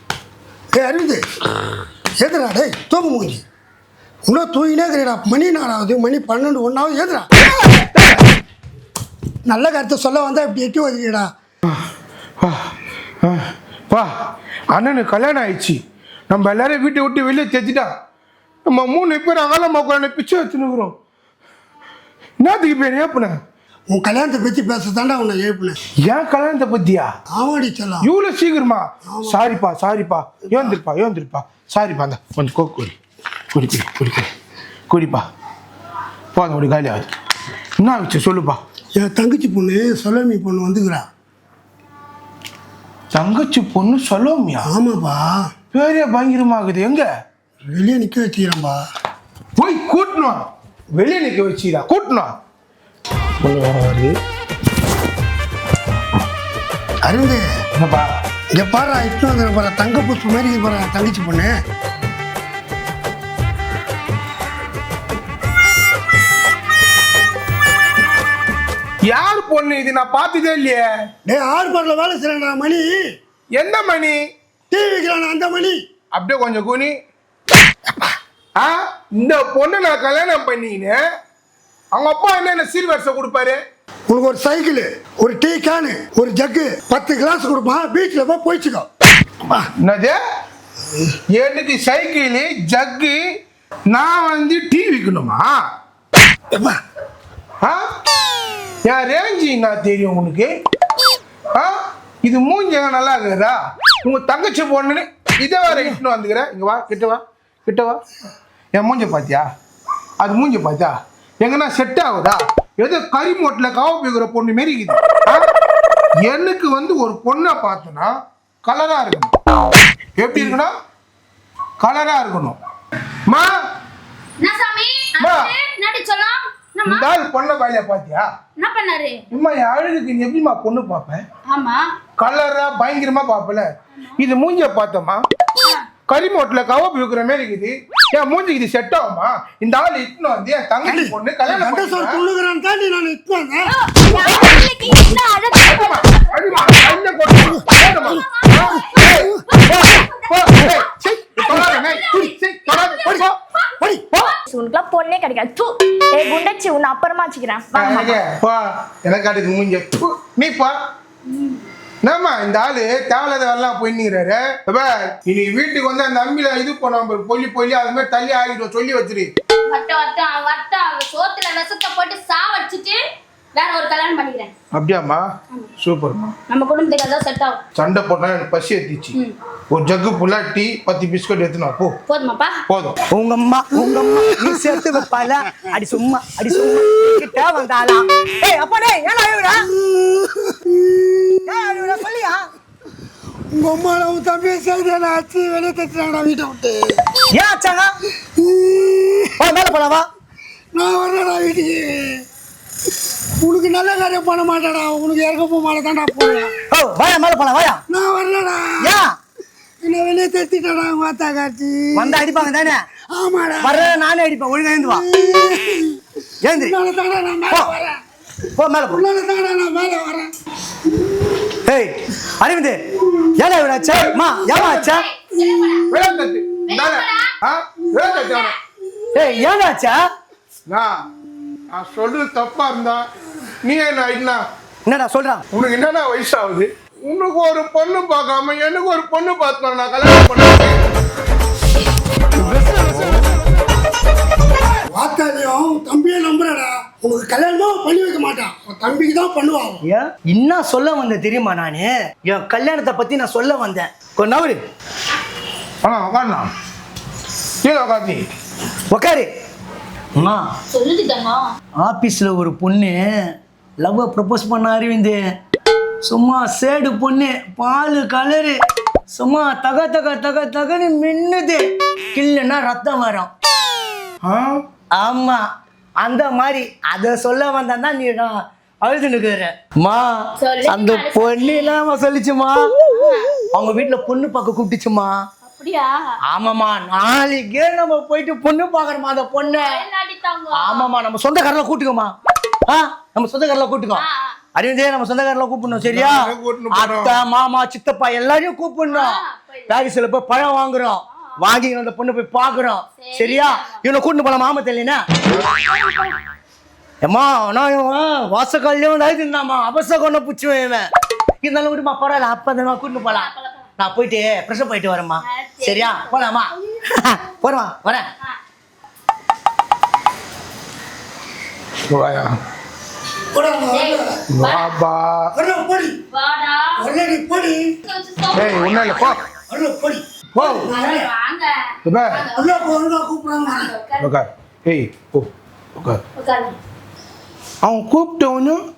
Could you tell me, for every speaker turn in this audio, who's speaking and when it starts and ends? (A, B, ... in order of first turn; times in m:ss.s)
0:00.7-0:01.2 A
0:02.2-0:03.4 A
0:04.2-0:07.3 A
0:07.5-0:08.2 B
0:09.4-0:11.3 A
0:12.4-0:14.1 B
0:14.7-0:17.9 B
0:18.6-0:20.9 B
0:22.4-0:23.4 B
0:23.9-0:25.8 A
0:26.0-0:27.1 B
0:27.3-0:28.1 A
0:28.0-0:33.0 B
0:29.0-0:29.6 A
0:30.5-0:30.8 A
0:33.5-0:34.3 B
0:34.9-0:35.2 B
0:36.3-0:37.1 B
0:37.8-0:38.6 B
0:39.0-0:41.1 A
0:43.1-0:44.7 B
0:44.6-0:45.4 A
0:45.7-0:47.1 B
0:47.6-0:48.8 A
0:49.6-0:52.3 B
0:53.4-0:54.2 B
0:57.0-0:57.5 A
0:57.8-0:58.1 B
0:58.5-1:01.5 A
1:09.0-1:10.9 B
1:11.2-1:13.0 A
1:13.5-1:14.2 B
1:14.7-1:15.8 A
1:16.1-1:16.9 B
1:18.6-1:21.0 B
1:21.9-1:23.6 B
1:24.1-1:28.9 A
1:29.4-1:29.7 A
1:29.8-1:30.2 B
1:31.3-1:33.2 B
1:33.9-1:35.5 B
1:36.5-1:36.8 A
1:38.8-1:40.5 B
1:41.5-1:48.0 B
1:45.7-1:46.0 A
1:48.7-1:49.4 B
1:50.2-1:55.5 B
1:56.2-1:59.3 B
2:00.2-2:00.7 B
2:01.8-2:02.6 B
2:04.4-2:07.1 C
2:05.2-2:05.5 B
2:06.9-2:08.3 B
2:08.6-2:09.2 C
2:09.3-2:11.2 B
2:11.5-2:11.8 C
2:12.2-2:15.2 B
2:16.1-2:22.2 B
2:20.8-2:24.3 A
2:23.7-2:24.1 C
2:24.0-2:25.8 D
2:24.9-2:25.2 A
2:25.5-2:27.0 C
2:25.6-2:29.3 B
2:28.0-2:30.9 C
2:28.7-2:29.4 A
2:29.7-2:30.0 E
2:30.3-2:33.3 B
2:31.4-2:34.4 C
2:34.1-2:38.2 D
2:37.7-2:40.8 B
2:41.3-2:41.6 C
2:42.0-2:49.3 B
2:49.7-2:53.0 C
2:53.5-2:54.5 C
2:54.7-2:55.2 B
2:55.8-2:56.3 B
2:56.5-2:57.6 C
2:57.8-2:59.2 B
2:59.7-3:02.0 B
3:02.1-3:02.6 C
3:02.7-3:03.0 B
3:03.1-3:09.7 E
3:03.9-3:05.0 A
3:09.8-3:11.9 A
3:11.4-3:12.5 E
3:13.5-3:17.0 A
3:17.3-3:17.9 E
3:18.4-3:19.3 A
3:19.4-3:20.1 E
3:20.7-3:22.2 A
3:23.4-3:26.5 A
3:26.7-3:27.8 E
3:27.9-3:29.0 A
3:28.8-3:29.1 E
3:29.8-3:32.5 A
3:31.9-3:32.8 E
3:33.1-3:34.0 A
3:33.6-3:35.0 E
3:34.8-3:38.0 A
3:36.4-3:36.8 E
3:37.5-3:37.8 E
3:38.5-3:39.0 E
3:38.9-3:40.3 A
3:41.6-3:45.1 E
3:44.5-3:45.8 C
3:45.4-3:46.4 A
3:45.9-3:48.5 B
3:46.6-3:47.3 C
3:48.0-3:48.6 C
3:49.1-3:50.0 E
3:50.7-3:51.0 B
3:51.7-3:53.0 B
3:53.6-3:54.4 B
3:54.9-3:55.4 E
3:55.5-4:00.8 B
4:02.4-4:03.2 E
4:04.9-4:09.8 A
4:09.8-4:14.6 E
4:15.8-4:16.5 B
4:17.6-4:18.3 B
4:18.9-4:19.3 E
4:20.1-4:20.5 E
4:20.7-4:21.4 C
4:21.8-4:23.0 E
4:23.8-4:25.2 E
4:26.0-4:28.6 E
4:29.1-4:33.3 E
4:34.2-4:34.6 B
4:34.9-4:35.4 E
4:36.0-4:40.1 E
4:40.4-4:41.7 C
4:40.7-4:42.7 E
4:42.9-4:43.3 C
4:43.5-4:45.1 E
4:45.4-4:46.0 C
4:46.3-4:49.8 E
4:49.4-4:50.9 C
4:50.5-4:52.1 E
4:52.7-5:05.0 E
4:53.9-4:54.3 C
4:55.8-4:57.2 B
4:58.9-4:59.7 C
5:03.0-5:03.8 C
5:05.4-5:06.2 C
5:07.0-5:10.8 E
5:11.4-5:13.3 E
5:12.9-5:13.6 C
5:13.8-5:18.1 E
5:15.2-5:16.2 C
5:21.9-5:22.4 B
5:23.3-5:24.1 A
5:23.7-5:24.8 C
5:24.3-5:25.3 B
5:25.4-5:26.0 A
5:26.1-5:26.7 C
5:26.8-5:27.7 A
5:27.8-5:29.1 C
5:28.3-5:29.2 B
5:29.5-5:30.0 E
5:30.3-5:30.6 B
5:30.4-5:31.5 C
5:30.7-5:31.0 A
5:31.8-5:32.2 B
5:32.0-5:32.8 C
5:32.3-5:33.7 A
5:33.4-5:34.1 C
5:34.0-5:36.0 B
5:36.2-5:36.6 C
5:37.6-5:38.6 B